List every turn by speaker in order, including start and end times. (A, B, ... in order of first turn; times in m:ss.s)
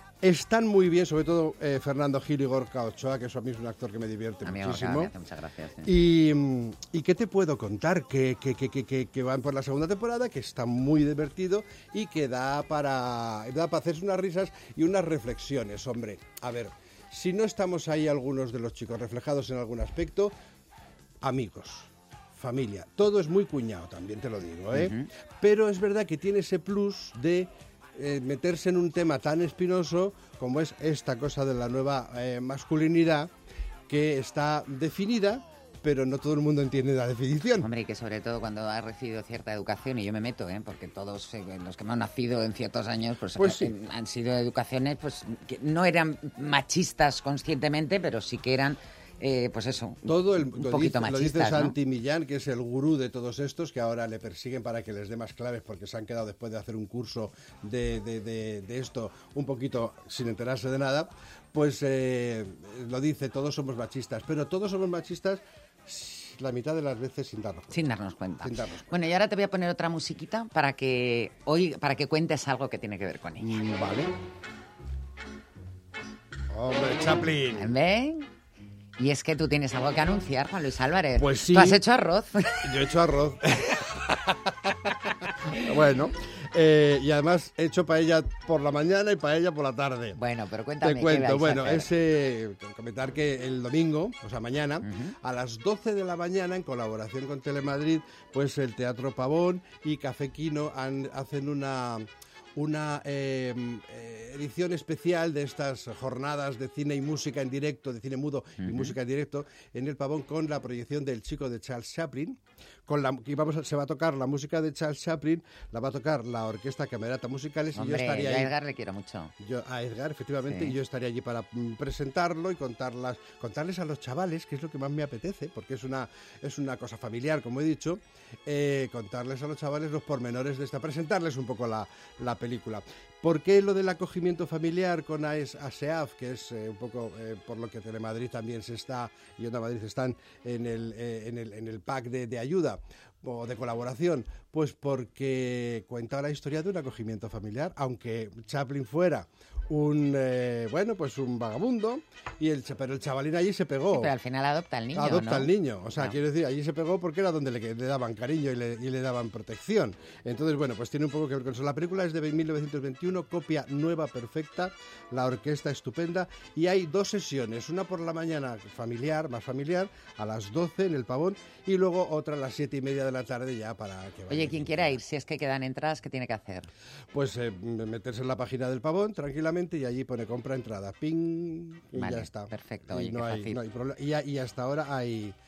0:00.2-0:05.1 A
0:04.4-0:05.9 B
0:05.8-0:20.3 A
0:21.2-0:33.3 A
0:24.7-0:25.1 B
0:33.9-0:37.7 A
0:37.6-0:51.8 B
0:43.4-0:43.7 A
0:50.1-1:07.8 A
1:07.7-1:13.6 B
1:08.4-1:09.0 A
1:13.4-1:14.1 A
1:16.5-1:17.7 A
1:17.6-1:18.3 B
1:19.0-1:22.8 B
1:21.2-1:21.8 A
1:22.6-1:24.7 A
1:25.6-1:30.2 A
1:30.2-1:31.9 B
1:30.8-1:58.5 A
1:34.8-1:35.1 B
1:48.6-1:49.0 B
1:57.8-1:59.3 B
1:59.4-2:34.1 A
2:00.5-2:00.8 B
2:33.9-2:36.2 B
2:34.9-2:55.0 A
2:54.3-2:56.7 B
2:57.1-3:05.4 A
3:01.9-3:03.6 B